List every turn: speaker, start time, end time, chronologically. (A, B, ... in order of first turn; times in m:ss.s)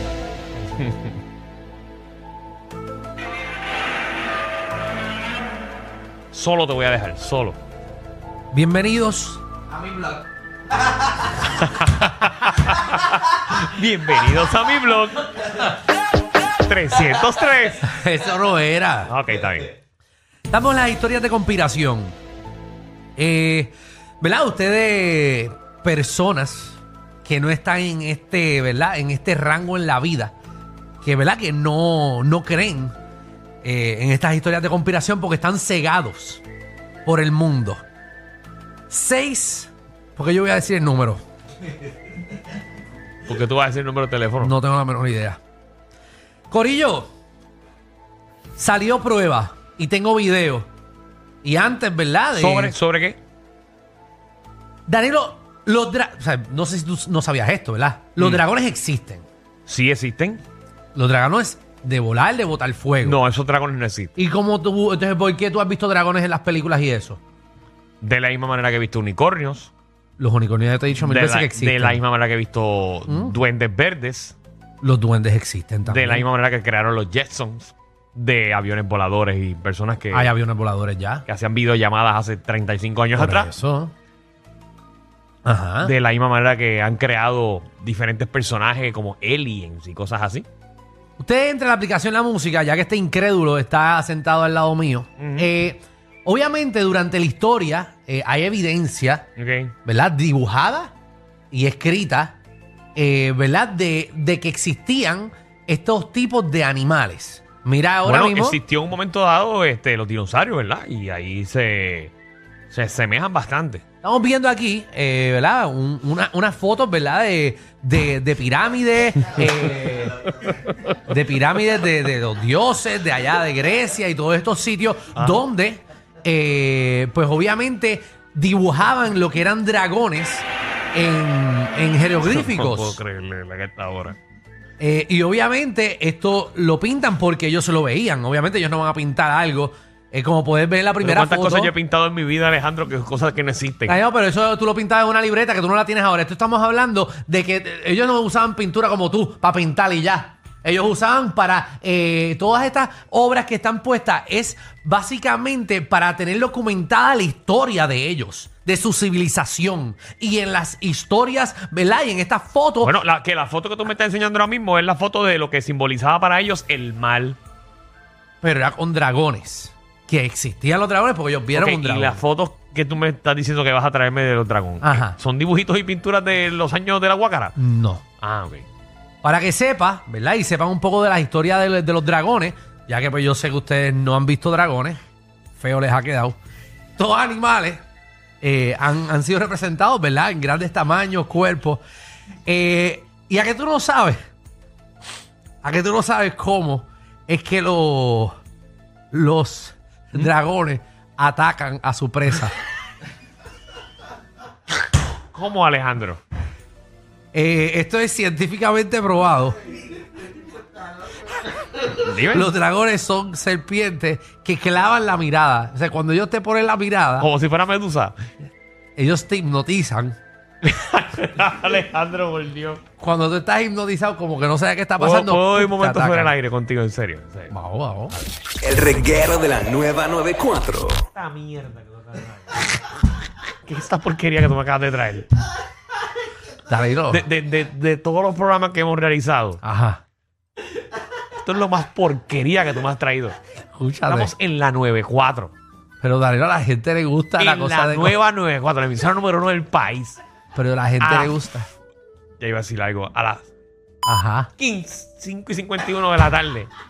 0:00.7-0:01.1 A
0:06.3-0:07.6 A
0:08.5-0:09.4 B
0:11.4-0:15.7 A
0:16.6-0:17.8 A
0:17.8-0:19.1 B
0:19.1-0:19.7 A
0:20.5-0:22.1 B
0:23.2-0:30.3 B
0:31.0-0:32.9 B
0:33.6-0:36.4 B
0:37.0-0:37.8 B
0:38.9-0:41.2 B
0:43.3-0:44.5 A
0:44.4-0:45.4 B
0:46.5-0:47.1 B
0:48.6-0:50.7 B
0:51.4-0:52.7 B
0:52.3-0:53.2 A
0:54.9-0:59.2 B
0:58.2-0:58.4 A
0:59.7-1:00.4 A
1:00.9-1:03.2 B
1:03.0-1:04.1 A
1:04.2-1:07.2 B
1:08.0-1:09.7 A
1:10.2-1:12.0 B
1:11.0-1:14.4 A
1:13.1-1:13.4 B
1:14.8-1:16.2 B
1:15.8-1:20.3 A
1:20.1-1:21.2 B
1:21.3-1:23.5 A
1:23.2-1:23.9 B
1:25.4-1:25.9 B
1:25.8-1:30.4 A
1:31.2-1:39.2 B
1:35.2-1:35.5 A
1:39.4-1:39.7 A
1:39.8-1:40.9 B
1:41.5-1:42.4 B
1:43.0-1:48.6 B
1:48.0-1:52.1 A
1:52.7-1:53.8 A
1:54.0-2:00.3 B
2:00.4-2:00.7 A
2:01.1-2:13.0 B
2:05.1-2:05.4 A
2:12.3-2:14.2 A
2:14.8-2:21.7 B
2:21.0-2:24.0 A
2:23.8-2:42.9 B
2:42.8-2:47.4 A
2:48.4-2:52.2 B
2:51.5-2:57.5 A
2:54.8-2:55.2 B
2:57.6-2:58.0 B
2:58.2-2:58.6 A
2:59.2-3:05.0 B
3:05.6-3:06.4 B
3:07.0-3:07.8 B
3:08.4-3:11.8 B
3:12.4-3:14.2 B
3:15.6-3:18.3 B
3:19.1-3:22.5 B
3:25.3-3:26.2 A
3:27.3-3:29.6 B
3:31.7-3:37.3 B
3:31.9-3:32.5 A
3:37.2-3:38.2 A
3:39.0-3:40.2 B
3:40.6-3:42.8 A
3:43.0-3:46.3 B
3:45.0-3:47.5 A
3:47.5-3:48.1 B
3:48.6-3:51.0 C
3:51.1-3:52.9 A
3:53.6-3:55.3 A
3:56.7-3:57.2 B
3:57.1-3:59.6 A
3:59.6-4:00.0 B
4:01.4-4:03.4 A
4:03.7-4:04.3 B
4:04.1-4:05.5 A
4:06.0-4:08.2 B
4:07.4-4:10.2 A
4:10.5-4:11.7 B
4:11.0-4:11.3 A
4:12.4-4:13.5 A
4:14.0-4:14.5 B
4:14.6-4:16.7 A